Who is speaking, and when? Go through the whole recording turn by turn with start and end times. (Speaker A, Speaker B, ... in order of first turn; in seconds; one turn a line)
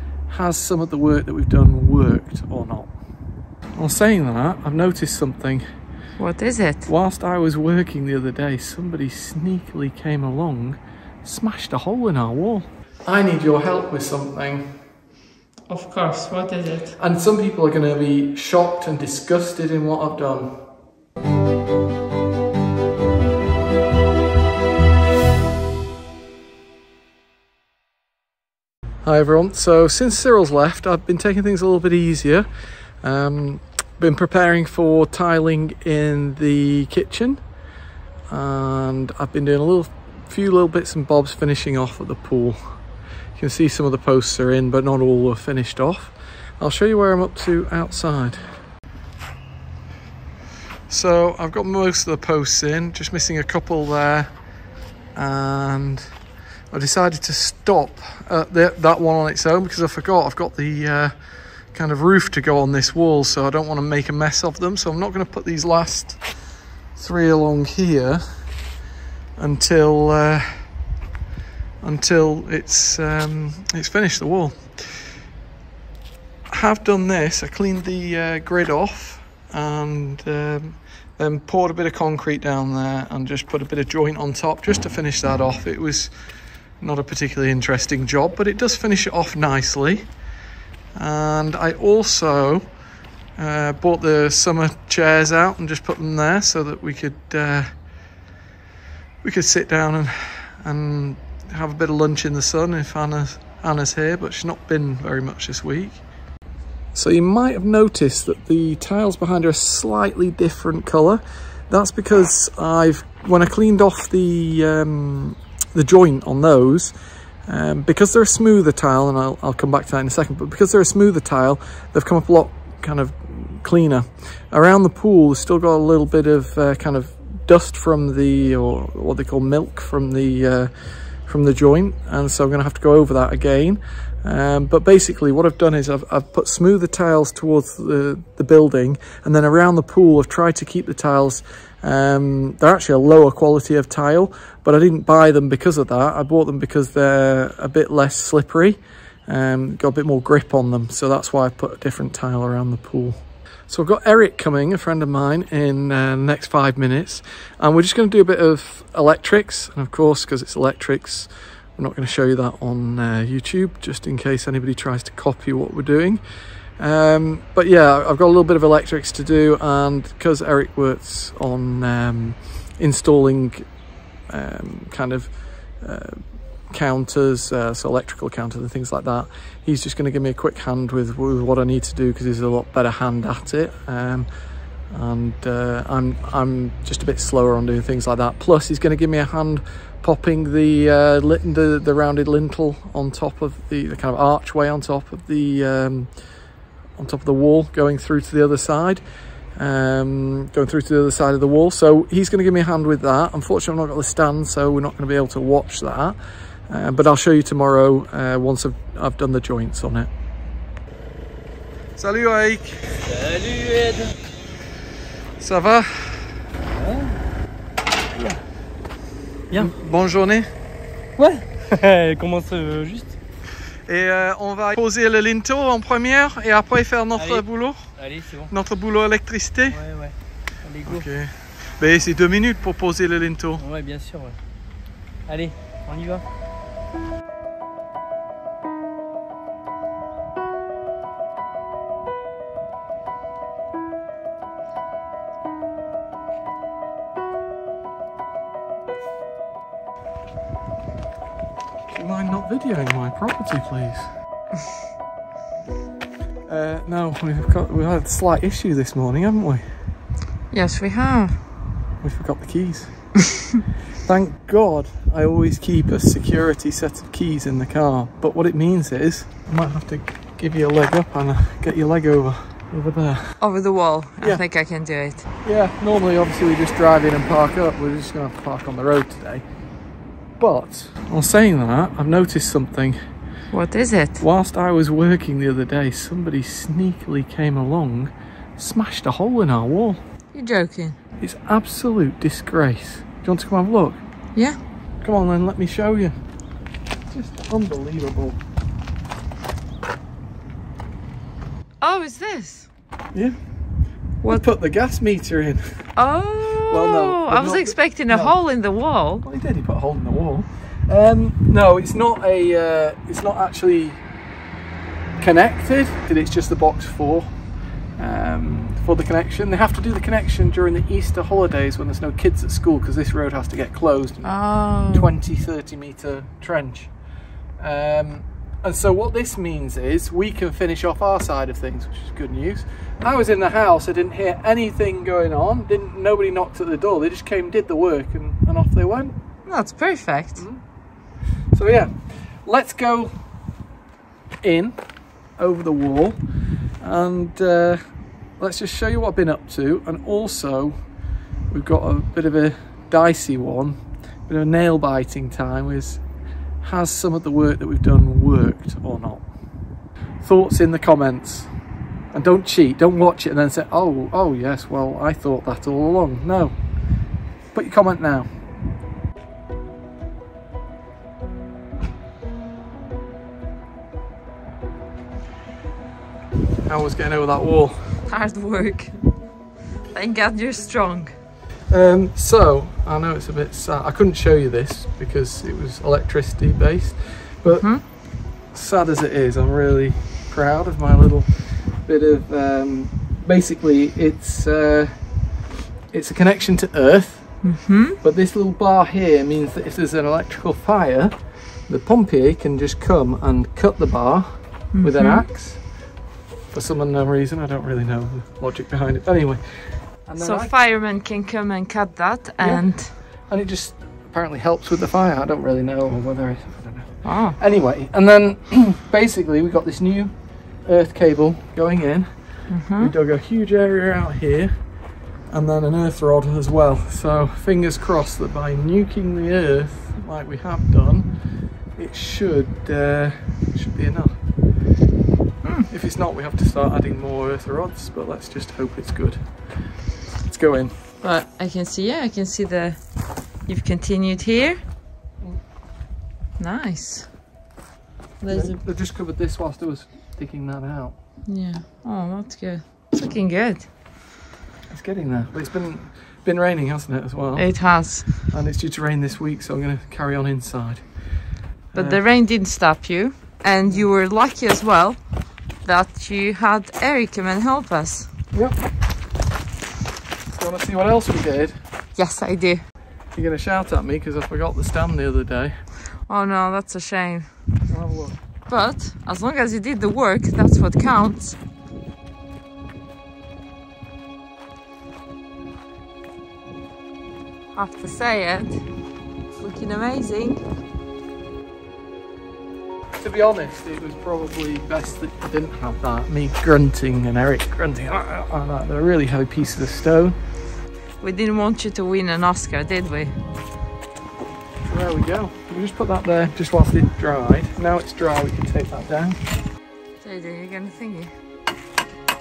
Speaker A: 0.3-2.9
Speaker A: 3.8-5.7
Speaker B: 6.2-6.9
Speaker A: 6.9-14.8
Speaker B: 15.7-17.0
Speaker A: 17.0-20.6
Speaker A: 29.0-37.5
Speaker A: 38.3-48.6
Speaker A: 50.9-54.5
Speaker A: 55.1-56.1
Speaker A: 56.7-68.5
Speaker A: 69.4-70.8
Speaker A: 71.8-75.2
Speaker A: 76.5-86.1
Speaker A: 86.8-90.1
Speaker A: 91.0-92.7
Speaker A: 93.4-97.7
Speaker A: 99.2-106.0
Speaker A: 106.9-116.9
Speaker A: 117.5-166.2
Speaker A: 166.8-173.7
Speaker A: 174.3-184.3
Speaker A: 184.9-206.2
Speaker A: 206.7-210.1
Speaker A: 212.0-212.9
Speaker C: 213.0-214.2
Speaker A: 215.4-216.3
Speaker C: 216.8-217.2
Speaker C: 219.5-219.8
Speaker A: 219.5-220.5
Speaker C: 221.2-223.2
Speaker A: 223.9-229.8
Speaker C: 227.2-228.5
Speaker C: 229.7-231.1
Speaker A: 230.9-233.6
Speaker C: 233.6-234.4
Speaker C: 235.2-236.2
Speaker A: 251.9-254.1
Speaker A: 256.5-259.6
Speaker B: 260.5-261.4
Speaker A: 262.0-263.2
Speaker A: 264.0-273.4
Speaker B: 273.4-275.3
Speaker A: 275.4-279.4
Speaker A: 280.4-283.0
Speaker B: 283.5-284.2
Speaker A: 284.2-290.0
Speaker B: 290.3-291.0
Speaker A: 291.2-294.0
Speaker A: 295.0-296.2
Speaker A: 297.1-298.4
Speaker B: 301.8-302.7
Speaker A: 303.1-306.0
Speaker B: 306.0-309.2
Speaker A: 306.7-308.5
Speaker A: 309.2-314.0
Speaker A: 315.2-327.0
Speaker B: 324.2-325.1
Speaker A: 327.6-339.2
Speaker B: 339.5-340.4
Speaker A: 340.4-343.1
Speaker A: 344.4-346.3
Speaker A: 346.8-350.9
Speaker A: 351.5-356.1
Speaker A: 356.6-359.3
Speaker A: 360.2-368.4
Speaker A: 376.7-378.1
Speaker B: 378.1-379.4
Speaker B: 379.9-381.2
Speaker A: 381.7-395.4
Speaker B: 387.5-387.8
Speaker A: 395.9-405.9
Speaker B: 397.4-398.0
Speaker B: 404.7-405.3
Speaker A: 406.5-410.5
Speaker B: 410.2-413.0
Speaker A: 412.4-434.2
Speaker B: 417.0-417.4
Speaker B: 422.5-422.9
Speaker B: 435.4-435.7
Speaker A: 435.7-440.8
Speaker B: 441.0-444.6
Speaker B: 446.4-447.2
Speaker B: 448.2-448.6
Speaker A: 448.3-451.0
Speaker B: 451.3-453.7
Speaker A: 454.7-462.0
Speaker B: 457.4-458.2
Speaker B: 461.7-468.1
Speaker A: 468.3-468.6
Speaker A: 470.3-471.6
Speaker B: 471.9-472.6
Speaker A: 473.1-475.6
Speaker B: 476.0-477.5
Speaker A: 477.7-478.2
Speaker B: 478.5-481.4
Speaker B: 487.6-488.6
Speaker B: 489.3-490.4
Speaker A: 493.0-500.2
Speaker B: 501.0-503.1
Speaker A: 504.6-509.2
Speaker B: 510.0-511.1